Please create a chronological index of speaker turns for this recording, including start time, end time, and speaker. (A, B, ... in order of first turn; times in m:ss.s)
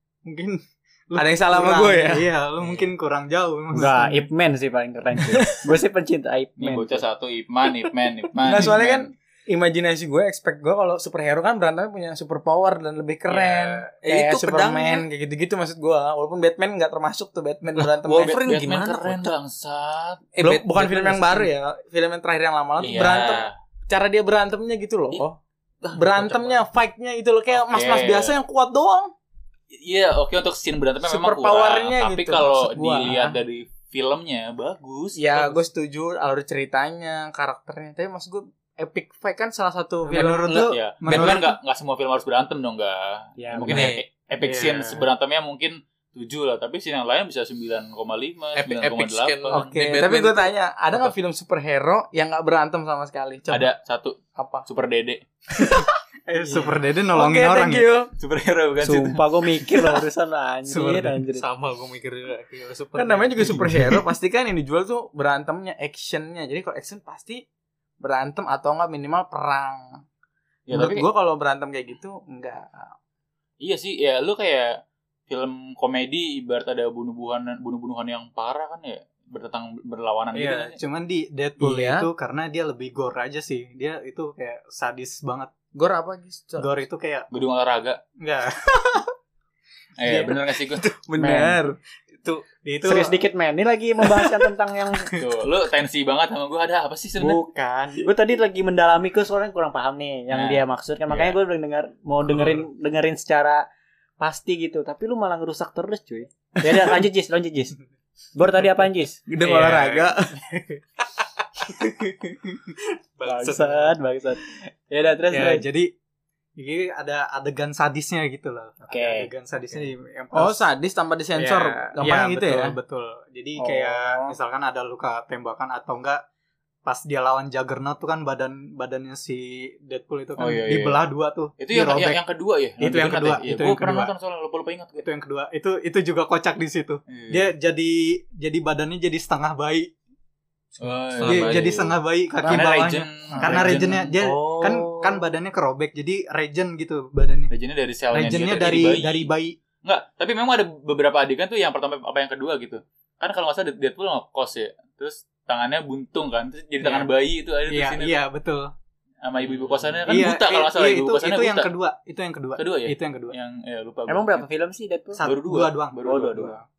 0:00.2-0:04.3 A
0:01.2-0:02.3 B
0:03.7-0:07.0 C
0:06.6-0:09.1 D
0:08.4-0:18.4 B
0:13.3-0:13.8 D
0:14.0-0:15.1 E
0:17.8-0:19.3 E
0:18.2-0:20.2 D
0:20.4-0:25.4 B
0:20.4-0:21.5 E
0:22.8-0:23.5 D
0:23.0-0:23.5 E
0:25.8-0:26.6 E
0:25.9-0:29.1 B
0:27.5-0:28.3 D
0:29.7-0:35.6 D
0:31.0-0:33.4 B
0:35.2-0:40.7 B
0:40.0-0:41.5 A
0:40.5-0:41.4 E
0:40.7-0:49.7 D
0:43.4-0:43.9 C
0:43.7-0:44.0 E
0:44.4-0:45.1 A
0:48.5-0:50.5 E
0:49.5-0:53.7 B
0:53.5-0:55.2 D
0:54.3-0:54.6 B
0:55.5-0:58.1 B
0:56.3-0:58.0 A
0:58.1-0:59.2 D
0:58.8-1:01.5 C
1:01.3-1:03.7 E
1:03.0-1:07.4 B
1:08.0-1:10.0 B
1:10.7-1:11.1 D
1:10.7-1:12.9 B
1:13.6-1:20.8 D
1:20.3-1:25.5 A
1:21.6-1:22.1 B
1:25.7-1:26.7 B
1:26.6-1:27.3 A
1:27.3-1:28.0 D
1:28.2-1:29.1 A
1:30.0-1:30.8 D
1:30.2-1:31.8 B
1:31.2-1:31.6 C
1:32.6-1:33.2 A
1:32.8-1:35.1 C
1:35.2-1:37.4 D
1:37.2-1:43.6 C
1:40.3-1:41.4 D
1:44.2-1:47.7 C
1:48.3-1:49.2 C
1:49.3-1:50.4 B
1:53.2-1:54.0 E
1:53.2-1:55.6 C
1:55.3-1:55.9 A
1:56.6-2:00.7 A
1:58.9-1:59.3 C
2:00.3-2:02.7 B
2:01.4-2:06.2 A
2:03.6-2:04.4 C
2:06.8-2:12.2 A
2:10.4-2:11.0 D
2:11.6-2:15.0 D
2:12.8-2:14.1 A
2:15.0-2:19.9 A
2:17.1-2:17.5 D
2:20.8-2:24.1 D
2:21.2-2:21.8 E
2:21.2-2:27.5 A
2:23.4-2:25.3 C
2:27.5-2:29.3 D
2:28.1-2:29.6 A
2:29.8-2:38.2 D
2:36.8-2:37.1 A
2:37.7-2:38.7 A
2:39.2-2:41.7 D
2:39.5-2:39.9 E
2:40.0-2:43.3 A
2:42.6-2:44.4 D
2:44.1-2:45.2 C
2:45.2-2:46.6 A
2:45.2-2:46.5 D
2:46.0-2:46.6 C